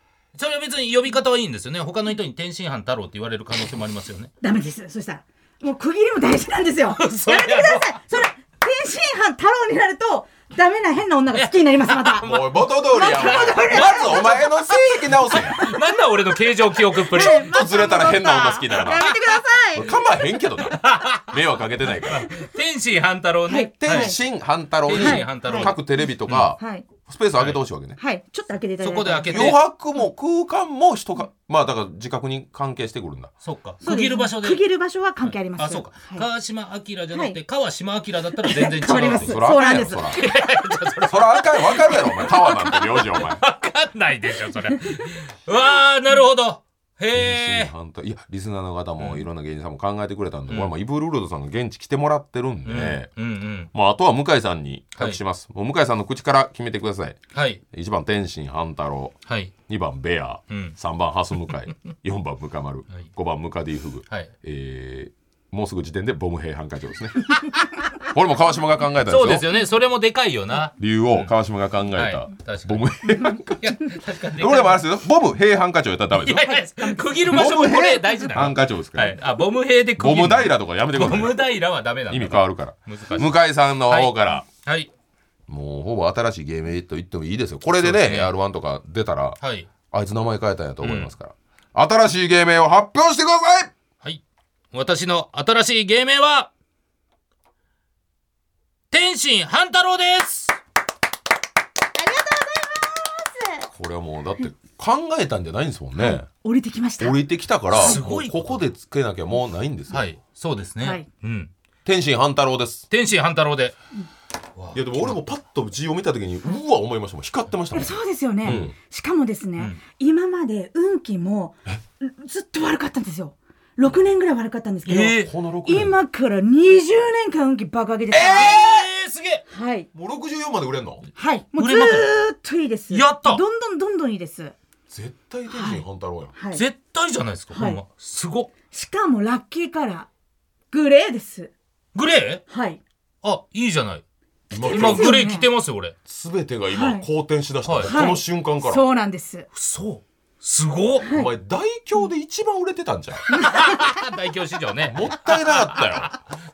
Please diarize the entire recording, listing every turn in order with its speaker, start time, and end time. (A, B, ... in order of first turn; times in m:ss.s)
0:00.3-0:04.3 A
0:04.4-0:12.3 B
0:06.9-0:08.0 A
0:11.3-0:14.4 A
0:12.2-0:15.6 C
0:12.9-0:14.5 B
0:15.3-0:17.5 A
0:17.0-0:19.9 B
0:17.1-0:19.1 C
0:19.1-0:19.4 A
0:19.7-0:22.3 C
0:20.7-0:21.3 A
0:22.0-0:24.2 A
0:23.5-0:24.2 B
0:23.8-0:28.0 C
0:24.8-0:26.5 A
0:24.9-0:25.7 B
0:26.6-0:26.9 B
0:28.0-0:29.5 B
0:28.8-0:29.6 A
0:29.3-0:33.3 C
0:33.4-0:34.6 A
0:33.8-0:36.2 B
0:35.2-0:47.7 A
0:37.1-0:37.4 B
0:38.4-0:40.1 B
0:38.6-0:40.2 C
0:41.1-0:43.4 C
0:47.1-0:53.1 C
0:49.0-0:49.2 A
0:52.6-0:53.7 A
0:53.7-1:09.5 C
0:57.3-0:57.6 A
0:59.3-0:59.5 A
1:00.5-1:00.8 A
1:09.0-1:11.3 A
1:10.8-1:16.5 C
1:12.0-1:14.8 A
1:16.2-1:23.3 A
1:16.4-1:17.2 B
1:17.3-1:19.2 C
1:20.0-1:21.5 C
1:22.1-1:24.5 C
1:23.9-1:24.9 A
1:25.5-1:33.7 C
1:27.7-1:28.3 A
1:29.4-1:29.7 A
1:30.8-1:31.1 A
1:34.7-1:36.5 A
1:38.9-1:40.6 A
1:42.0-1:43.7 B
1:43.7-1:46.3 C
1:46.0-1:47.2 B
1:47.0-1:50.1 C
1:47.7-1:48.6 A
1:47.7-1:48.0 B
1:49.9-1:51.5 A
1:50.8-1:51.0 B
1:51.8-1:52.9 C
1:52.9-1:53.7 A
1:54.6-1:55.2 A
1:54.7-1:58.7 C
1:57.7-2:08.8 B
2:04.8-2:05.3 A
2:05.2-2:06.0 C
2:08.1-2:08.7 C
2:08.3-2:09.4 A
2:09.5-2:09.9 B
2:09.9-2:11.0 C
2:11.2-2:14.5 B
2:11.6-2:12.1 A
2:12.9-2:13.4 A
2:14.9-2:16.3 C
2:15.5-2:15.8 B
2:16.4-2:16.6 B
2:16.5-2:18.5 A
2:17.5-2:17.8 B
2:18.7-2:20.1 B
2:20.7-2:21.5 B
2:21.9-2:22.4 A
2:22.5-2:22.8 B
2:23.2-2:24.0 A
2:24.5-2:25.2 C
2:24.5-2:25.5 B
2:24.6-2:25.9 A
2:26.0-2:28.8 C
2:26.7-2:27.0 B
2:27.6-2:28.1 A
2:27.8-2:29.5 B
2:29.5-2:31.1 A
2:31.0-2:31.3 B
2:31.0-2:33.3 C
2:33.3-2:33.9 B
2:33.3-2:36.1 A
2:34.9-2:36.2 C